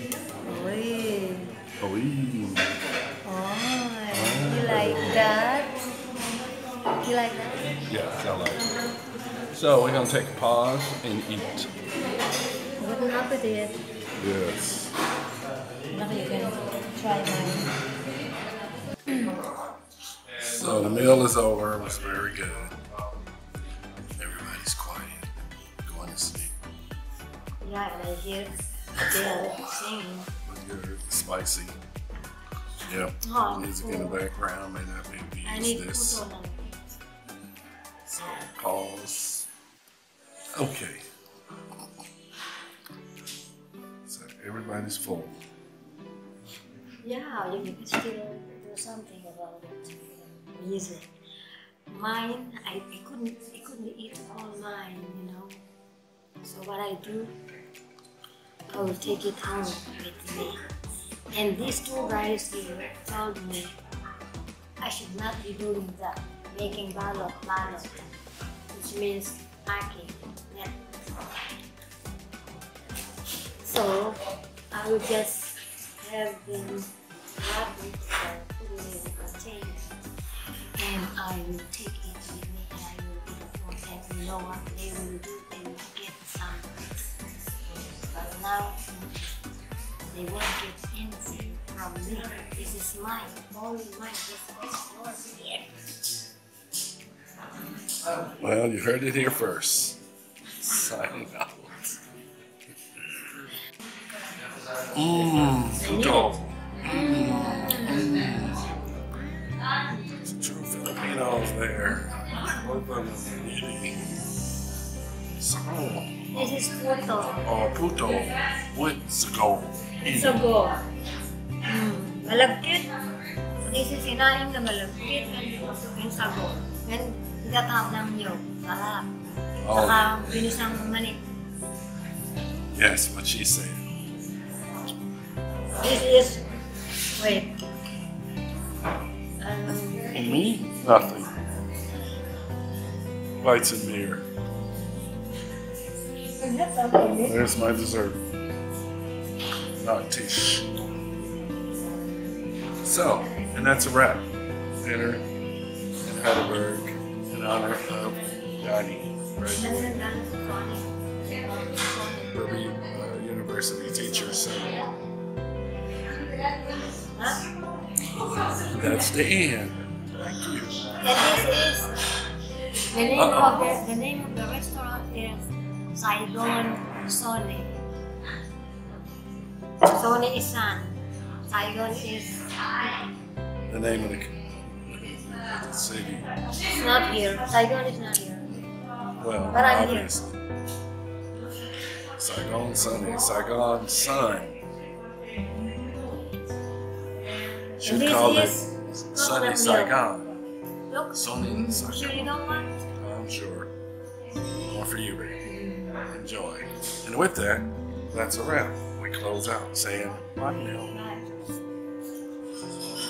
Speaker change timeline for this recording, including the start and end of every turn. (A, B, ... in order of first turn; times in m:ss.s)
0:00.4-0:01.5 A
0:01.8-0:02.7 B
0:03.2-0:05.8 A
0:04.1-0:05.3 B
0:07.0-0:07.8 A
0:07.9-0:08.7 B
0:09.5-0:11.7 B
0:12.8-0:13.8 A
0:14.2-0:14.9 B
0:15.9-0:17.7 A
0:19.1-0:19.4 A
0:20.3-0:22.8 B
0:24.2-0:26.6 B
0:27.6-0:30.3 A
0:29.0-0:29.6 B
0:30.5-0:31.8 B
0:32.8-0:36.2 B
0:33.2-0:34.2 A
0:35.4-0:36.8 A
0:38.1-0:39.5 B
0:40.5-0:41.1 B
0:44.1-0:45.4 B
0:47.0-0:51.1 A
0:51.9-0:55.6 A
0:56.4-0:57.4 A
0:58.7-1:00.6 A
1:01.3-1:03.8 A
1:04.8-1:08.0 A
1:08.7-1:10.8 A
1:13.6-1:20.0 A
1:20.8-1:27.1 A
1:28.1-1:29.2 A
1:30.1-1:35.7 A
1:38.2-1:40.0 B
1:40.6-1:42.0 B
1:43.0-1:43.3 B
1:44.9-1:48.8 B
1:45.8-1:48.3 A
1:49.8-1:50.2 A
1:50.2-1:54.4 B
1:55.4-1:56.5 B
1:56.3-1:57.4 A
1:57.4-2:00.5 B
2:00.0-2:00.8 A
2:01.6-2:02.9 A
2:03.6-2:09.1 A
2:09.6-2:10.1 B
2:09.7-2:11.2 A
2:12.7-2:14.0 B
2:15.8-2:16.4 A
2:17.1-2:17.6 A
2:19.4-2:20.4 A
2:20.1-2:21.3 B
2:23.4-2:24.2 B
2:26.4-2:27.4 A
2:27.2-2:28.2 B
2:29.8-2:30.7 B
2:32.8-2:34.3 B
2:34.8-2:35.2 B
2:36.0-2:40.0 B
2:39.6-2:42.2 A
2:42.3-2:44.9 B
2:47.0-2:47.6 A
2:48.5-2:50.8 B
2:51.0-2:51.9 A
2:52.8-2:57.8 A
2:53.1-2:53.7 B
2:59.8-3:03.0 A
3:03.7-3:06.3 B
3:06.7-3:08.6 A
3:09.2-3:10.4 B
3:09.5-3:10.1 A
3:12.2-3:14.6 B
3:17.8-3:20.0 A
3:17.8-3:20.4 B
3:20.9-3:22.8 A
3:21.1-3:22.4 B
3:23.0-3:23.7 B
3:24.7-3:25.4 B
3:25.4-3:26.0 A
3:26.1-3:31.0 B
3:30.9-3:31.3 A